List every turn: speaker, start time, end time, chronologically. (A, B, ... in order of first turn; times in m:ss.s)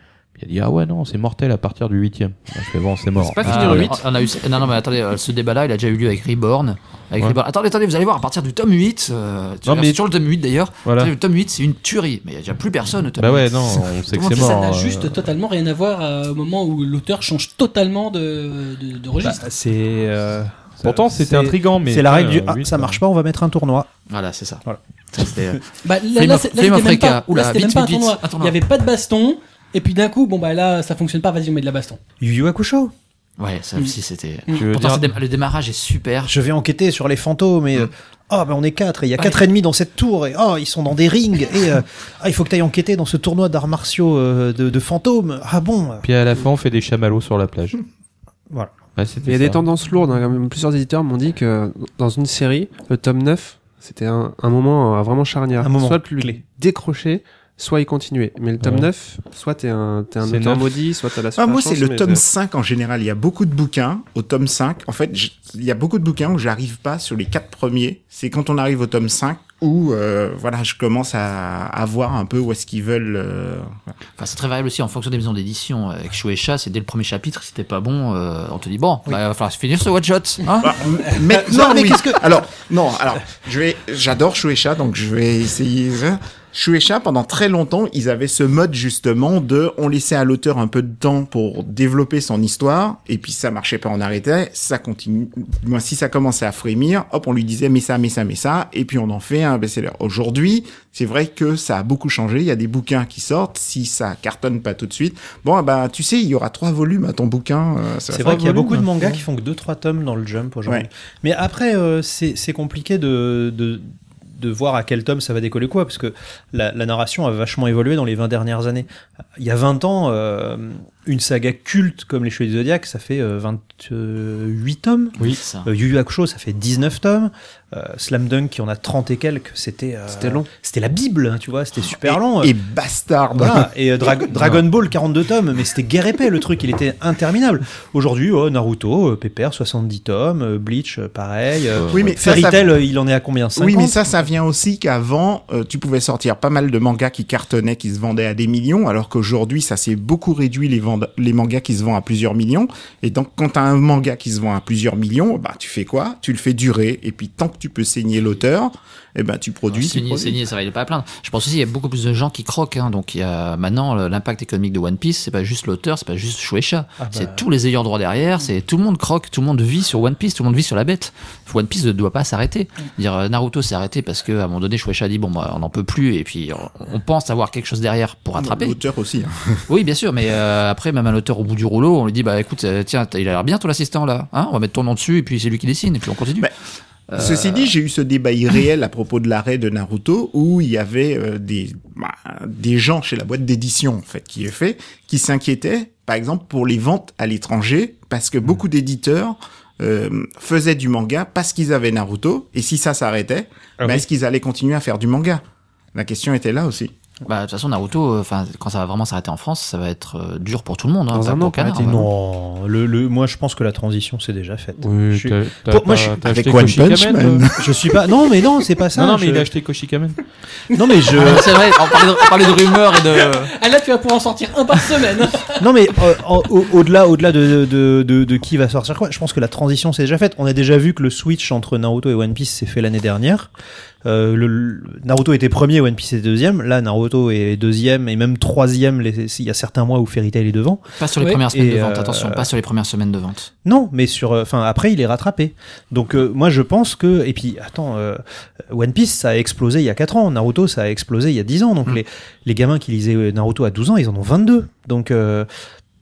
0:00.4-0:04.0 A
0:03.2-0:14.5 B
0:09.6-0:10.0 A
0:10.8-0:11.1 A
0:13.2-0:15.2 A
0:14.2-0:19.4 C
0:19.2-0:23.9 D
0:20.8-0:23.0 A
0:24.1-0:25.6 B
0:24.6-0:25.6 D
0:25.8-0:32.0 C
0:26.2-0:28.5 B
0:32.2-0:32.9 D
0:33.4-0:36.3 B
0:34.5-0:35.1 A
0:36.2-0:46.1 D
0:46.0-0:47.8 A
0:49.0-0:49.6 A
0:49.2-1:02.2 E
0:55.6-0:56.4 D
0:58.6-0:58.9 A
1:00.2-1:00.7 A
1:01.4-1:13.9 F
1:14.2-1:20.8 B
1:20.6-1:48.5 F
1:21.0-1:22.2 D
1:48.1-2:12.6 D
1:48.3-1:48.9 A
2:05.2-2:05.7 B
2:10.1-2:10.5 E
2:11.9-2:14.6 F
2:13.3-2:24.1 D
2:21.8-2:22.5 A
2:21.9-2:22.8 F
2:23.6-2:40.4 F
2:39.7-2:58.8 B
2:47.0-2:47.4 D
2:58.4-2:59.6 F
2:59.7-3:06.5 B
3:07.1-3:07.7 B
3:07.1-3:25.4 F
3:23.8-3:24.0 D
3:25.9-3:26.9 F
3:27.2-3:32.1 B
3:31.1-3:32.0 E
3:31.3-3:36.2 D
3:34.8-3:37.5 A
3:36.2-3:37.9 F
3:37.6-3:39.5 D
3:38.9-3:40.2 A
3:40.7-3:41.6 D
3:41.1-3:43.5 B
3:41.3-3:45.6 C
3:45.6-3:53.5 D
3:54.0-4:00.9 D
4:01.0-4:03.5 B
4:01.5-4:02.5 D
4:03.6-4:15.5 D